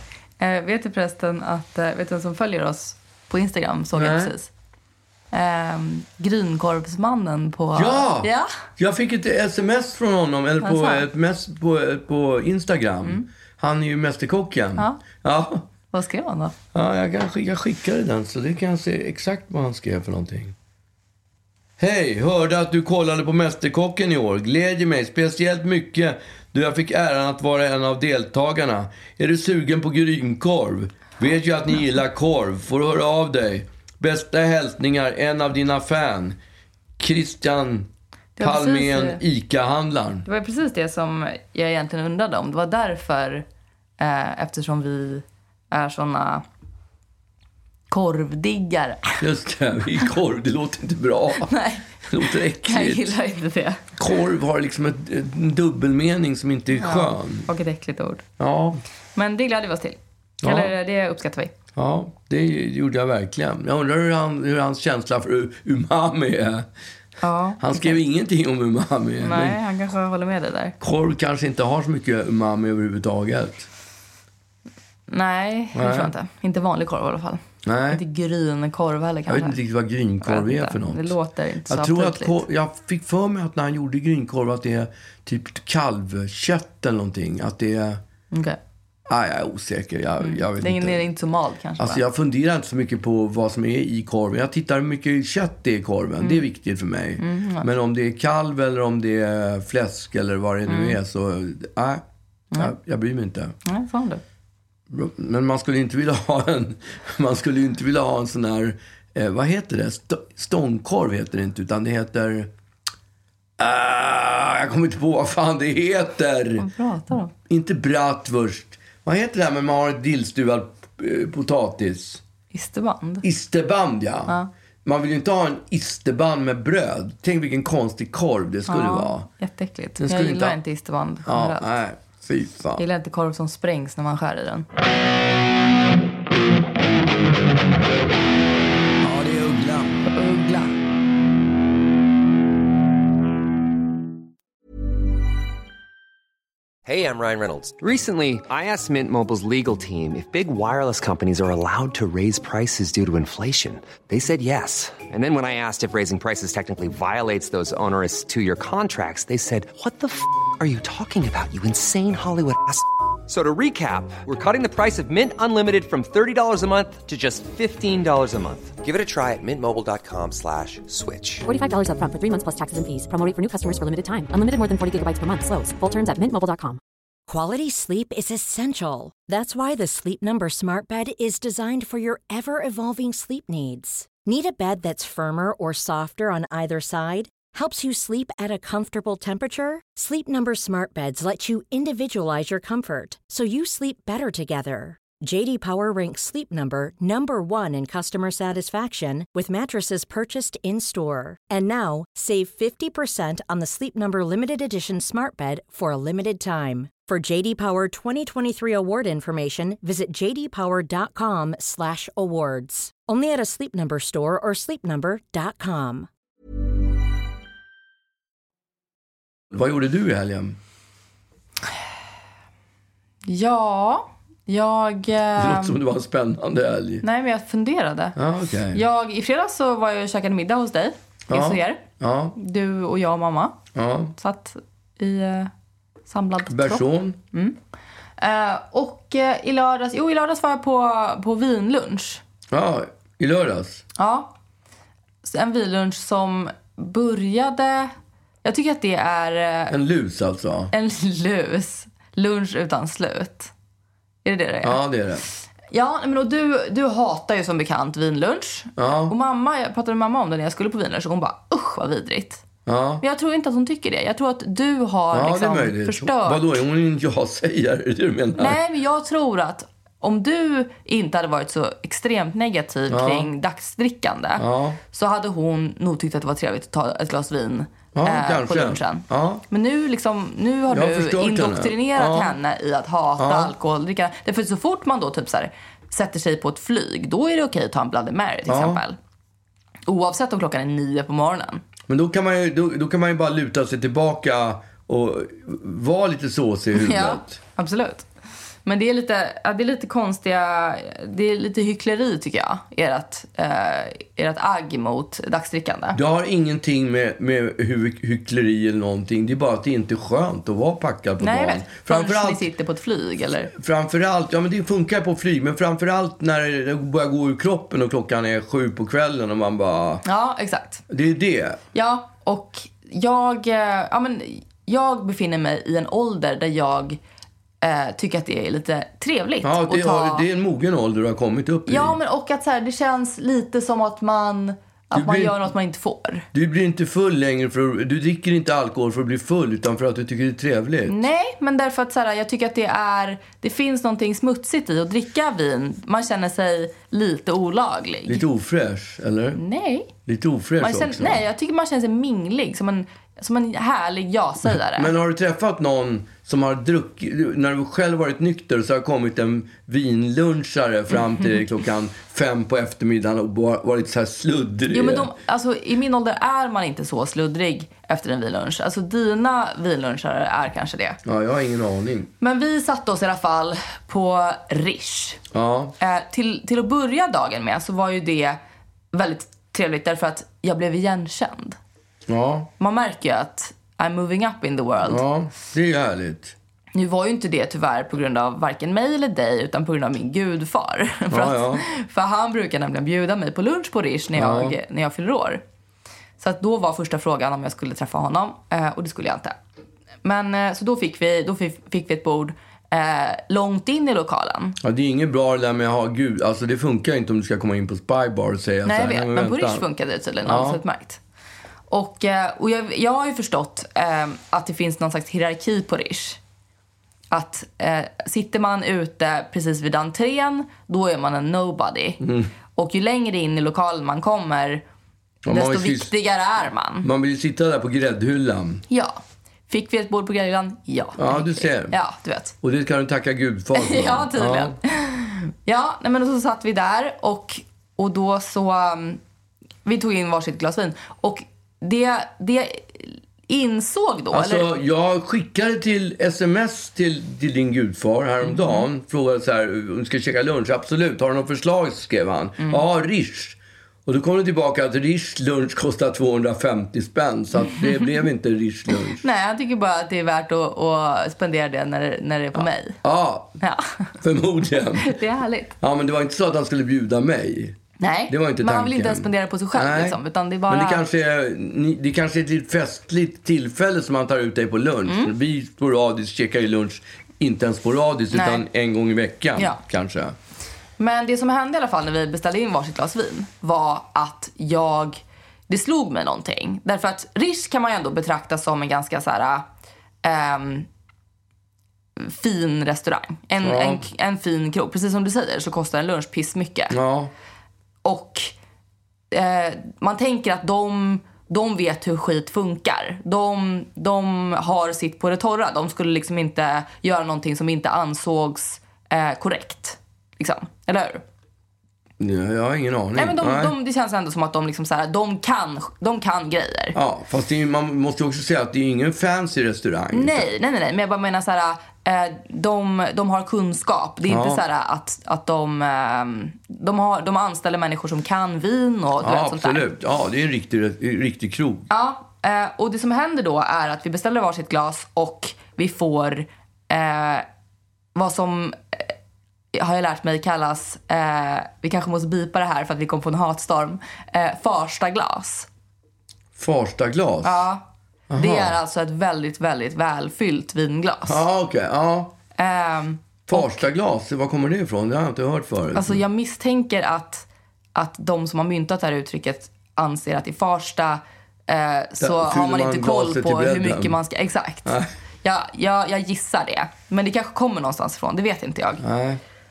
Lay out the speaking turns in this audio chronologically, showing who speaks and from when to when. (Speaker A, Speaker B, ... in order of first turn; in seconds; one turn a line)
Speaker A: 0.4-4.5
Speaker B: 3.9-4.3
Speaker A: 5.3-8.5
Speaker B: 7.8-15.6
Speaker A: 10.6-11.1
Speaker A: 14.8-15.0
Speaker A: 15.9-16.5
Speaker B: 16.7-20.5
Speaker B: 21.8-36.4
Speaker B: 37.0-37.9
Speaker A: 38.4-39.2
Speaker B: 38.4-40.3
Speaker A: 40.3-43.5
Speaker A: 44.0-46.4
Speaker A: 47.9-49.2
Speaker B: 49.2-51.5
Speaker A: 51.5-53.8
Speaker B: 52.1-53.1
Speaker B: 54.0-57.5
Speaker A: 56.8-58.2
Speaker B: 58.4-58.8
Speaker A: 59.2-61.5
Speaker B: 60.4-60.7
Speaker B: 61.8-66.7
Speaker A: 67.2-68.0
Speaker B: 67.6-69.6
Speaker A: 69.2-70.8
Speaker B: 70.8-73.7
Speaker A: 75.1-79.6
Speaker B: 75.8-76.1
Speaker B: 77.6-78.0
Speaker B: 79.3-81.2
Speaker A: 80.2-82.4
Speaker B: 81.7-88.0
Speaker A: 88.3-88.6
Speaker B: 89.1-91.0
Speaker A: 90.2-92.0
Speaker B: 91.8-102.0
Speaker A: 97.2-97.7
Speaker A: 100.7-101.0
Speaker B: 102.6-103.5
Speaker A: 103.7-104.2
Speaker B: 104.9-112.5
Speaker B: 113.6-116.7
Speaker A: 116.6-117.3
Speaker B: 117.5-122.2
Speaker A: 122.5-123.2
Speaker B: 123.2-129.3
Speaker A: 128.7-131.7
Speaker B: 130.0-130.6
Speaker B: 131.2-132.8
Speaker A: 132.8-134.7
Speaker B: 139.0-140.0
Speaker A: 140.1-140.8
Speaker C: 146.9-171.5
Speaker D: 171.5-176.8
Speaker E: 177.3-216.1
Speaker B: 219.5-220.6
Speaker A: 223.2-225.8
Speaker B: 225.4-227.0
Speaker A: 227.0-228.2
Speaker B: 228.2-228.8
Speaker A: 228.7-231.8
Speaker B: 231.3-232.3
Speaker A: 232.4-233.6
Speaker B: 233.8-234.1
Speaker A: 234.2-235.5
Speaker A: 236.1-237.6
Speaker B: 236.5-237.2
Speaker A: 238.2-242.2
Speaker B: 242.5-243.8
Speaker A: 244.0-244.3
Speaker A: 245.2-247.9
Speaker A: 248.4-249.7
Speaker B: 249.7-250.7
Speaker A: 250.7-253.5
Speaker A: 254.2-254.8
Speaker B: 254.6-255.2
Speaker A: 255.7-262.4
Speaker B: 258.8-259.1
Speaker B: 262.7-263.0
Speaker A: 263.0-266.4
Speaker B: 265.1-268.6
Speaker A: 268.4-289.0
Speaker B: 272.9-273.3
Speaker B: 274.4-274.8
Speaker B: 277.9-279.4
Speaker B: 280.7-282.4
Speaker B: 283.2-283.5
Speaker B: 288.5-288.8
Speaker A: 289.9-291.6
Speaker B: 291.9-297.4
Speaker A: 296.8-298.1
Speaker A: 298.7-306.0
Speaker B: 305.9-312.4
Speaker A: 311.2-313.5
Speaker B: 313.6-320.0
Speaker A: 320.1-320.8
Speaker B: 320.9-321.6
Speaker A: 321.7-327.0
Speaker A: 327.6-330.2
Speaker B: 329.4-332.0
Speaker A: 331.7-336.2
Speaker B: 334.9-335.5
Speaker B: 336.3-341.0
Speaker A: 340.9-348.2
Speaker B: 348.1-349.4
Speaker A: 349.4-349.9
Speaker B: 350.1-351.2
Speaker A: 350.6-354.9
Speaker B: 354.8-365.1
Speaker A: 364.7-371.0
Speaker B: 371.1-372.1
Speaker A: 372.2-375.2
Speaker B: 375.3-375.8
Speaker A: 375.8-378.4
Speaker A: 378.9-381.6
Speaker B: 382.1-382.5
Speaker A: 382.6-385.0
Speaker B: 384.9-386.4
Speaker A: 386.8-395.4
Speaker B: 391.1-391.6
Speaker B: 394.1-394.6
Speaker A: 396.2-399.4
Speaker A: 400.0-404.6
Speaker B: 404.6-409.6
Speaker A: 408.6-411.0
Speaker B: 410.2-410.6
Speaker A: 411.7-416.2
Speaker A: 417.1-422.0
Speaker B: 422.0-422.3
Speaker A: 422.6-424.6
Speaker B: 425.2-425.9
Speaker A: 425.3-426.9
Speaker B: 426.8-428.6
Speaker A: 428.7-432.4
Speaker B: 431.0-431.8
Speaker B: 432.4-434.6
Speaker A: 433.6-439.0
Speaker A: 439.6-444.5
Speaker B: 444.1-459.0
Speaker A: 448.2-448.7
Speaker A: 457.4-457.8
Speaker A: 459.0-462.8
Speaker B: 462.4-463.4
Speaker A: 463.4-463.9
Speaker B: 464.0-464.9
Speaker A: 464.8-465.5
Speaker B: 465.6-467.6
Speaker A: 467.8-470.8
Speaker B: 468.1-480.1
Speaker A: 474.9-475.1
Speaker A: 478.1-478.4
Speaker A: 480.8-489.4
Speaker A: 490.0-490.7
Speaker A: 492.0-496.8
Speaker B: 493.4-493.8
Speaker B: 496.7-497.1
Speaker A: 497.8-498.3
Speaker A: 499.1-511.0
Speaker B: 512.0-513.5
Speaker A: 513.0-516.8
Speaker B: 516.7-520.3
Speaker A: 519.9-529.6
Speaker B: 524.1-524.4
Speaker B: 529.0-531.7
Speaker A: 531.7-537.2
Speaker A: 537.9-538.9
Speaker A: 539.5-545.5
Speaker B: 546.4-547.5
Speaker A: 547.2-551.2
Speaker B: 548.1-548.6
Speaker B: 551.0-552.1
Speaker A: 552.4-553.6
Speaker B: 553.3-556.0
Speaker A: 555.7-568.8
Speaker B: 562.0-564.0
Speaker B: 568.8-569.2